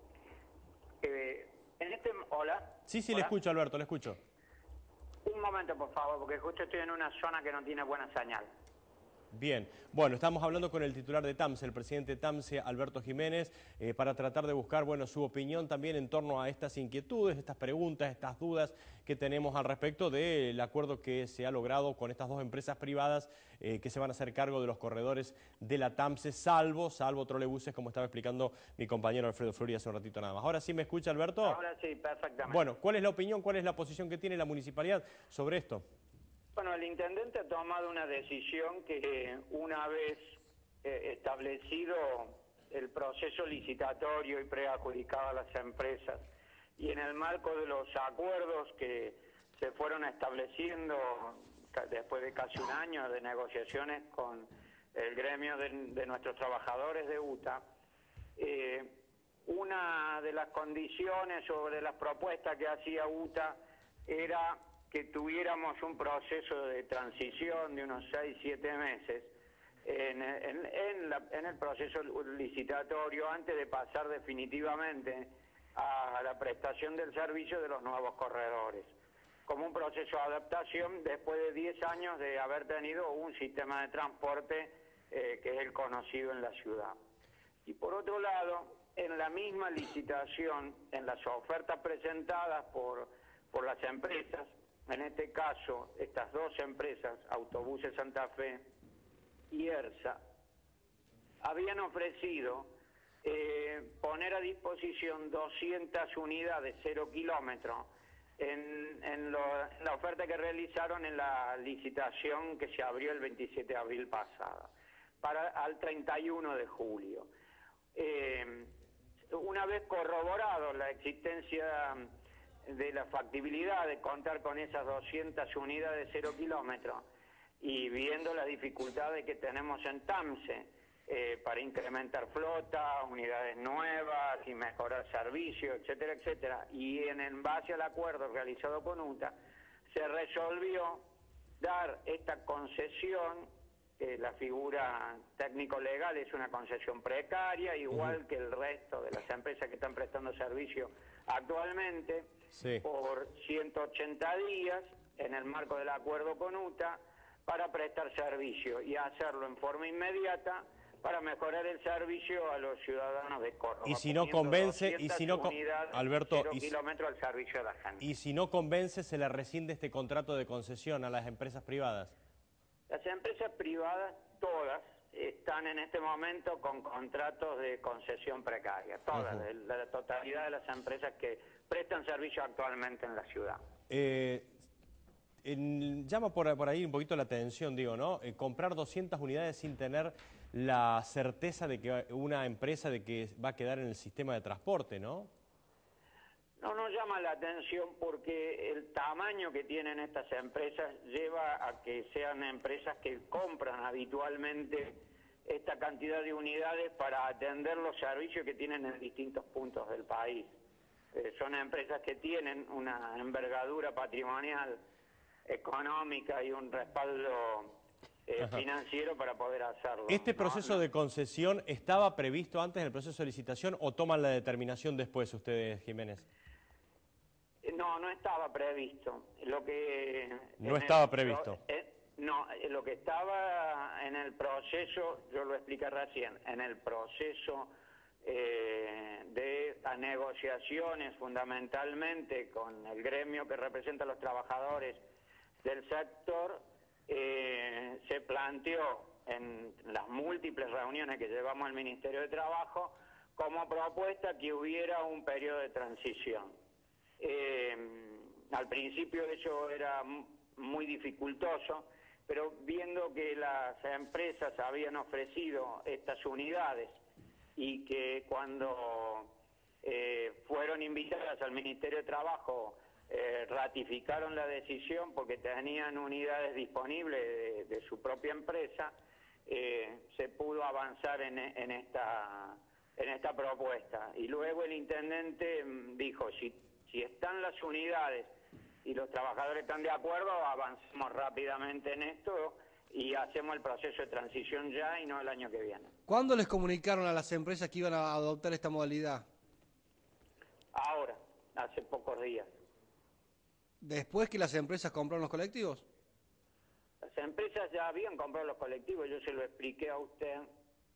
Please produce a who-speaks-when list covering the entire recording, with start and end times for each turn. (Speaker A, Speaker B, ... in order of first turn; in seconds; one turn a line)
Speaker A: 1.0-3.3
Speaker B: 2.9-4.2
Speaker A: 5.2-8.5
Speaker B: 9.3-31.6
Speaker A: 31.4-32.6
Speaker B: 32.5-35.8
Speaker A: 36.5-46.2
Speaker A: 46.8-57.6
Speaker A: 58.4-69.3
Speaker A: 69.8-78.9
Speaker A: 79.5-87.0
Speaker A: 87.7-98.7
Speaker A: 99.5-100.2
Speaker A: 101.4-114.7
Speaker A: 115.2-117.3
Speaker A: 117.9-118.7
Speaker A: 119.3-122.1
Speaker A: 122.7-127.0
Speaker A: 127.6-139.3
Speaker A: 139.9-141.1
Speaker A: 141.6-152.3
Speaker B: 152.5-152.8
Speaker A: 152.8-168.0
Speaker B: 163.8-166.7
Speaker B: 168.0-172.1
Speaker A: 172.9-183.6
Speaker B: 183.9-184.5
Speaker B: 185.4-195.3
Speaker A: 196.6-210.5
Speaker A: 211.1-214.8
Speaker A: 215.4-220.8
Speaker B: 220.1-226.2
Speaker A: 227.6-245.0
Speaker B: 230.6-231.6
Speaker A: 245.6-256.5
Speaker A: 257.2-267.0
Speaker A: 267.6-278.9
Speaker A: 279.4-288.3
Speaker A: 288.8-295.9
Speaker C: 296.1-299.2
Speaker A: 300.7-302.5
Speaker C: 303.8-305.8
Speaker A: 307.0-310.5